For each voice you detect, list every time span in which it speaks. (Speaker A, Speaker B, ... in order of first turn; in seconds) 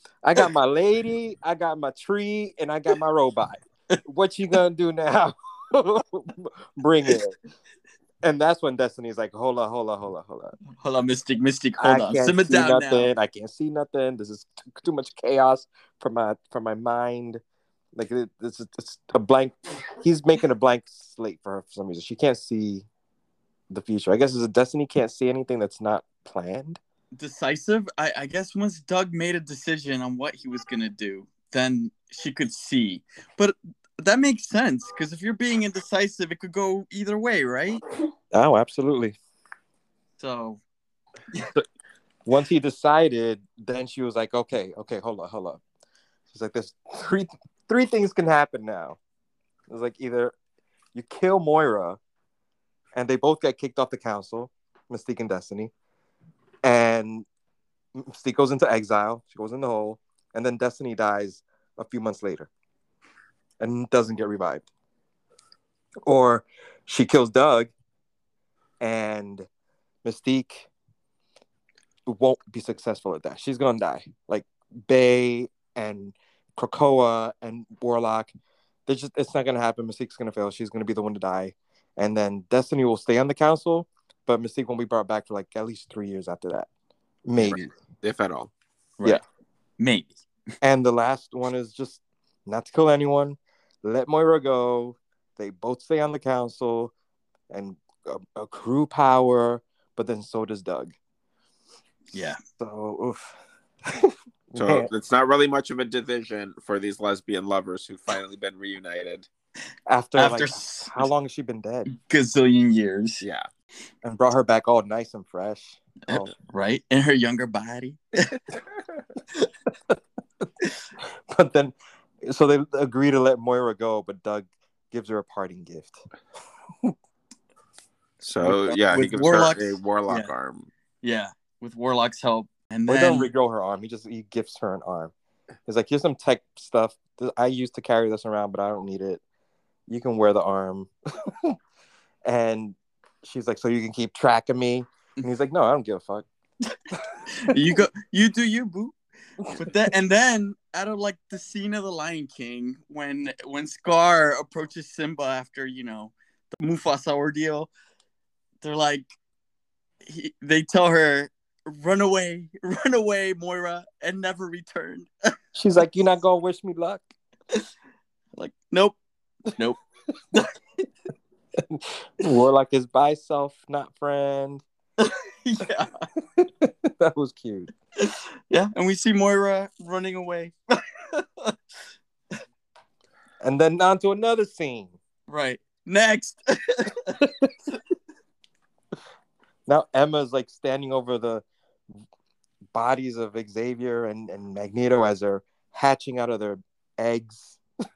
Speaker A: 0.2-7.4, 8.2-10.6, 11.8-17.4, 18.0-22.9, 23.7-26.8, 38.3-39.2, 42.3-45.6, 46.3-49.0, 49.7-50.4, 50.9-52.0, 53.0-55.7, 56.6-57.3, 58.0-62.5, 63.6-64.7, 66.1-67.7, 68.8-69.5, 70.0-70.7, 72.1-78.3, 78.9-86.7, 87.2-87.7, 90.6-96.9, 97.5-101.0, 102.5-103.4, 103.9-104.9, 109.9-111.9, 114.0-116.3, 121.3-126.0, 132.9-135.1, 135.7-139.2, 139.9-141.6, 142.3-146.3, 147.1-147.5, 165.6-167.0, 171.6-174.6, 176.4-177.7, 183.4-185.0, 187.2-187.5, 189.7-191.4, 192.7-197.6
Speaker B: 10.8-13.1, 27.1-37.8, 40.2-40.6, 89.8-90.2, 102.1-102.4, 110.2-111.1, 111.9-113.2, 116.1-118.4, 128.4-130.3, 131.0-133.3, 147.4-149.0, 149.5-157.7, 158.6-159.1, 160.0-165.1, 168.4-169.0, 169.5-169.8, 175.0-176.1, 178.0-181.6, 185.3-187.8
Speaker C: 87.4-88.5, 104.5-109.3, 113.2-113.5, 128.2-130.7